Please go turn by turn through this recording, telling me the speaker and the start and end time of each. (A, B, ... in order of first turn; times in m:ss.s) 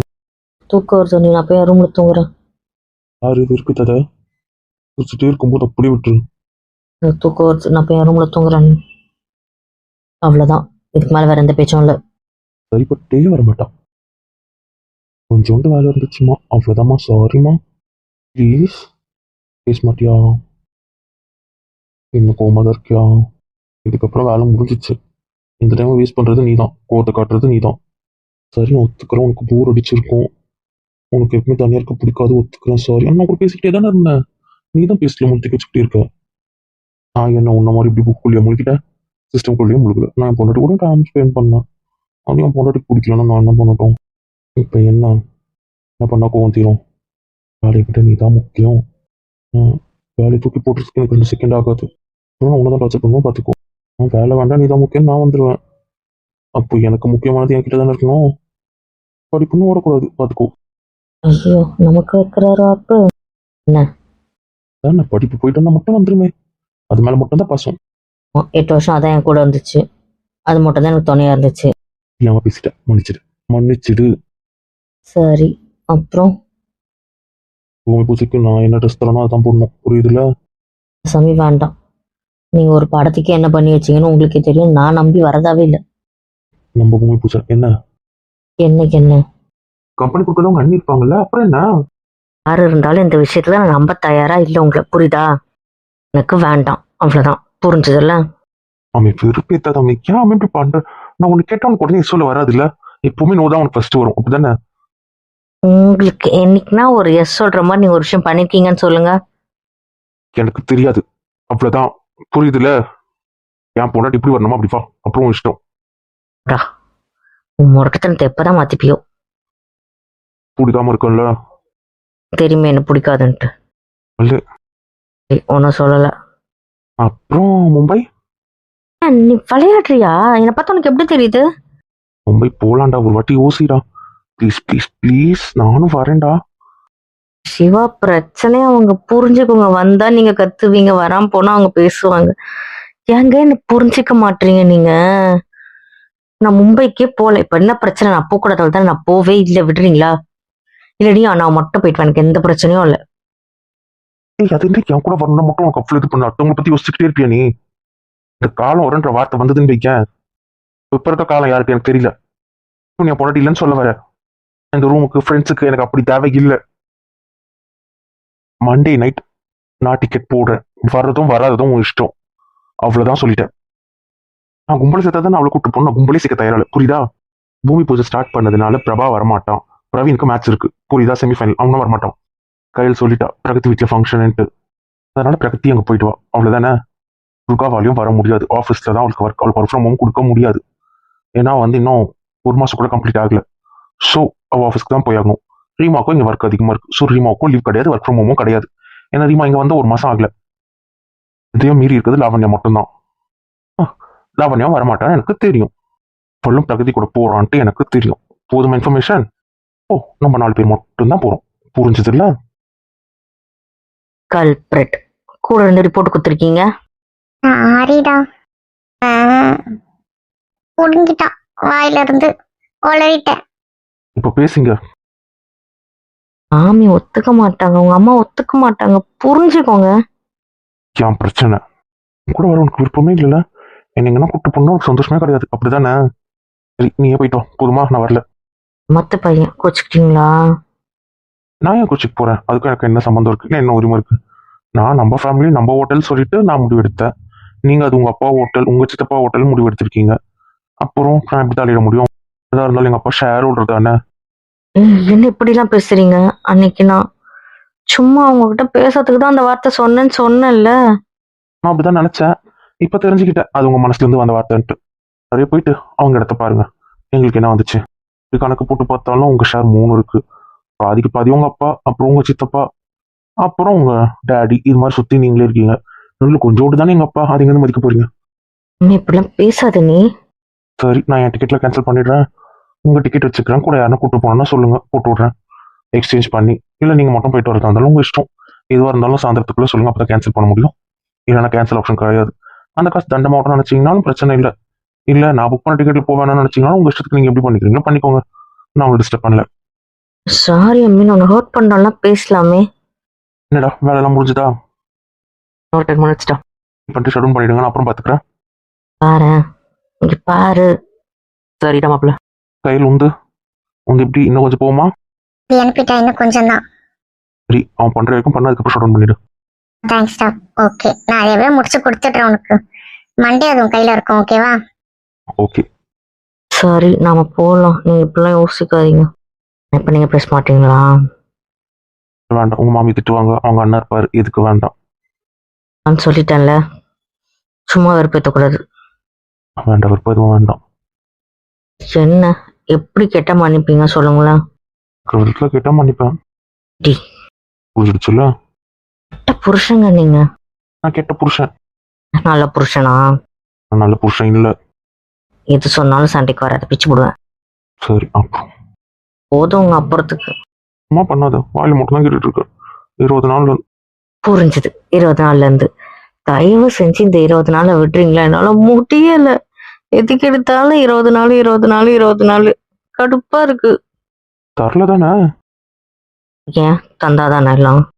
0:00.7-0:02.2 A
0:03.2-0:04.0 B
0:05.0-0:06.2 B
0:07.0-0:08.8 A
0:10.3-0:12.0 A
0:12.7-0:13.7 B
0:15.3-0:17.6 B
0:18.4-0:18.8 B
0:19.6-0:20.2 B
0:22.1-0:23.0 B
0:23.8-0:24.9 B
0:25.6-0:27.8 B
0:28.5-0:30.3 B
0:31.1-0:34.1 B
0:34.8-0:36.0 B
0:37.2-0:38.8 B
0:39.3-0:41.6 B
0:42.3-0:43.9 B
0:44.6-0:45.1 B
0:46.0-0:46.8 B
0:47.6-0:48.8 B
0:49.6-0:51.8 B
0:52.4-0:55.6 B
0:56.6-0:58.2 B
0:59.3-1:00.5 B
1:01.3-1:03.0 A
1:04.8-1:06.3 B
1:06.9-1:07.8 B
1:08.4-1:09.8 A
1:10.5-1:11.7 A
1:12.2-1:14.1 B
1:15.1-1:16.3 A
1:17.9-1:20.2 B
1:21.1-1:21.7 A
1:22.6-1:25.8 A
1:26.8-1:27.7 B
1:28.6-1:29.2 A
1:30.0-1:31.6 B
1:32.5-1:35.2 A
1:36.1-1:38.2 A
1:39.0-1:44.5 B
1:45.7-1:49.1 A
1:50.4-1:52.7 B
1:53.8-1:55.6 B
1:57.6-1:59.0 A
2:00.6-2:01.3 B
2:02.4-2:03.5 A
2:05.3-2:06.1 A
2:07.0-2:08.0 B
2:09.0-2:11.4 A
2:12.3-2:13.8 B
2:14.4-2:16.3 B
2:17.5-2:22.3 A
2:23.1-2:24.9 A
2:26.4-2:30.1 A
2:31.0-2:33.0 A
2:34.4-2:37.4 B
2:38.4-2:40.0 B
2:40.9-2:42.1 B
2:43.0-2:43.9 B
2:44.7-2:46.6 B
2:48.6-2:49.2 B
2:49.8-2:52.1 B
2:52.8-2:53.5 B
2:54.7-2:57.0 B
2:57.7-3:02.1 B
3:02.8-3:04.4 B
3:05.2-3:06.7 B
3:07.5-3:10.6 B
3:11.4-3:13.4 B
3:14.0-3:20.3 B
3:21.5-3:22.8 B
3:23.8-3:25.7 B
3:26.4-3:29.2 B
3:29.9-3:32.3 B
3:34.3-3:36.6 A
3:37.5-3:38.2 C
3:39.0-3:39.6 C
3:40.8-3:42.3 C
3:42.9-3:43.3 C
3:44.2-3:44.8 B
3:46.6-3:49.9 A
3:51.0-3:51.6 B
3:52.3-3:53.4 B
3:54.0-3:55.9 B
3:56.8-3:58.2 B
3:58.9-4:00.3 A
4:01.6-4:04.1 B
4:04.8-4:07.1 B
4:07.6-4:10.1 B
4:10.8-4:13.9 B
4:14.8-4:17.0 A
4:17.9-4:20.8 A
4:21.6-4:22.3 B
4:22.8-4:24.7 B
4:25.3-4:27.8 B
4:28.3-4:30.2 B
4:30.8-4:32.6 B
4:33.4-4:38.0 B
4:38.8-4:40.0 A
4:40.8-4:42.2 B
4:42.8-4:45.3 B
4:46.0-4:50.7 B
4:51.3-4:54.5 B
4:55.1-4:58.2 B
4:58.8-4:59.4 B
5:00.3-5:02.6 A
5:03.5-5:04.5 B
5:05.8-5:06.3 A
5:06.9-5:08.2 B
5:09.0-5:09.4 A
5:10.1-5:10.6 A
5:11.6-5:12.1 A
5:12.6-5:13.1 B
5:13.9-5:14.9 B
5:15.5-5:16.6 C
5:17.5-5:19.2 B
5:19.9-5:22.6 C
5:23.2-5:24.5 C
5:26.6-5:29.0 A
5:29.7-5:30.9 A
5:32.3-5:34.7 B
5:35.9-5:36.6 A
5:37.7-5:38.6 A
5:39.7-5:40.6 B
5:41.9-5:44.4 A
5:45.1-5:46.1 B
5:47.8-5:48.3 B
5:49.2-5:50.2 A
5:50.8-5:51.5 B
5:52.2-5:53.0 A
5:53.7-5:54.5 B
5:55.5-5:57.1 A
5:57.8-5:58.5 B
5:59.3-6:00.3 A
6:00.9-6:02.4 B
6:03.0-6:03.6 B
6:04.2-6:05.7 A
6:06.3-6:09.3 A
6:10.0-6:13.7 A
6:14.6-6:15.1 B
6:16.5-6:17.8 A